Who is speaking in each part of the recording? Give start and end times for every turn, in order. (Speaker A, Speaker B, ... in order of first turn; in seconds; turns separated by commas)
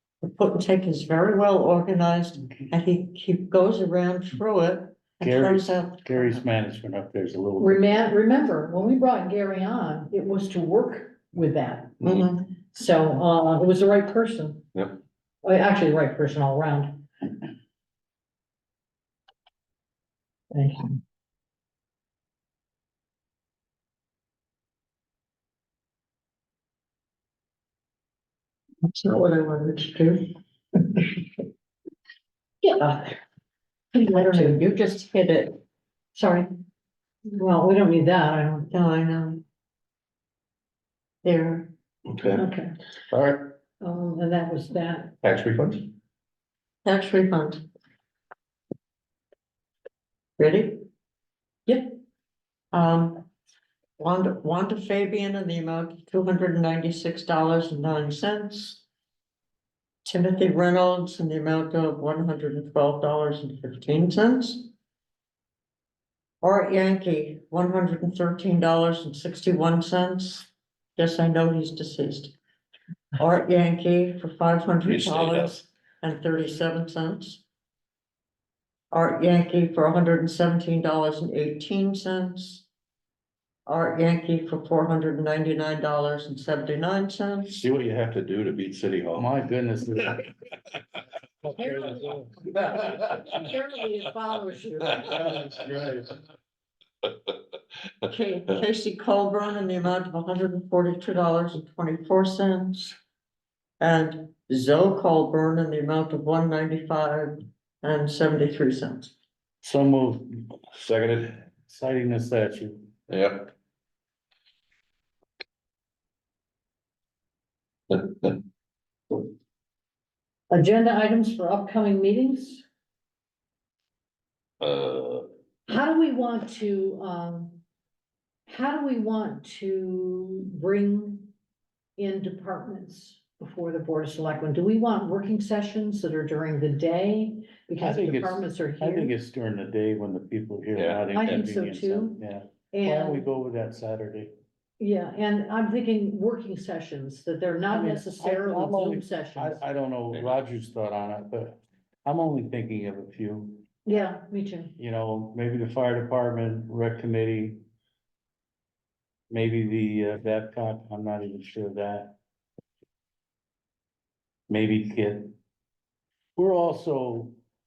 Speaker A: 0.2-6.4, Speaker B: 5.2-8.1, Speaker C: 7.6-12.0, Speaker D: 12.0-12.3, Speaker A: 12.0-12.5, Speaker C: 12.6-14.7, Speaker C: 15.4-17.1, Speaker C: 20.5-20.9, Speaker A: 28.8-30.3, Speaker C: 32.6-33.1, Speaker A: 34.0-35.6, Speaker C: 34.0-34.6, Speaker C: 36.2-36.5, Speaker C: 37.3-38.7, Speaker A: 38.7-39.4, Speaker A: 41.2-41.7, Speaker D: 42.1-42.4, Speaker C: 42.3-42.7, Speaker D: 43.1-43.5, Speaker C: 43.8-45.2, Speaker D: 45.2-45.9, Speaker A: 46.9-47.6, Speaker A: 50.4-50.9, Speaker C: 51.7-52.0, Speaker A: 52.7-53.2, Speaker A: 54.0-58.8, Speaker A: 60.0-64.7, Speaker A: 66.4-72.3, Speaker A: 73.2-77.4, Speaker D: 74.8-75.6, Speaker A: 78.9-82.7, Speaker A: 83.7-87.6, Speaker D: 87.6-89.3, Speaker B: 89.2-90.2, Speaker C: 91.6-95.5, Speaker A: 98.1-103.0, Speaker A: 103.8-109.1, Speaker B: 109.6-110.6, Speaker D: 110.7-111.4, Speaker B: 111.7-112.9, Speaker D: 113.1-113.5, Speaker D: 117.9-118.4, Speaker C: 120.5-122.6, Speaker D: 124.6-125.3, Speaker C: 125.7-127.6, Speaker C: 128.5-131.3, Speaker C: 132.0-139.2, Speaker B: 137.8-144.3, Speaker D: 140.8-141.3, Speaker C: 141.1-143.2, Speaker C: 144.8-149.6, Speaker B: 147.7-153.7, Speaker C: 153.8-154.8, Speaker B: 154.8-157.6, Speaker B: 159.3-162.2, Speaker B: 164.5-165.4, Speaker B: 166.4-167.4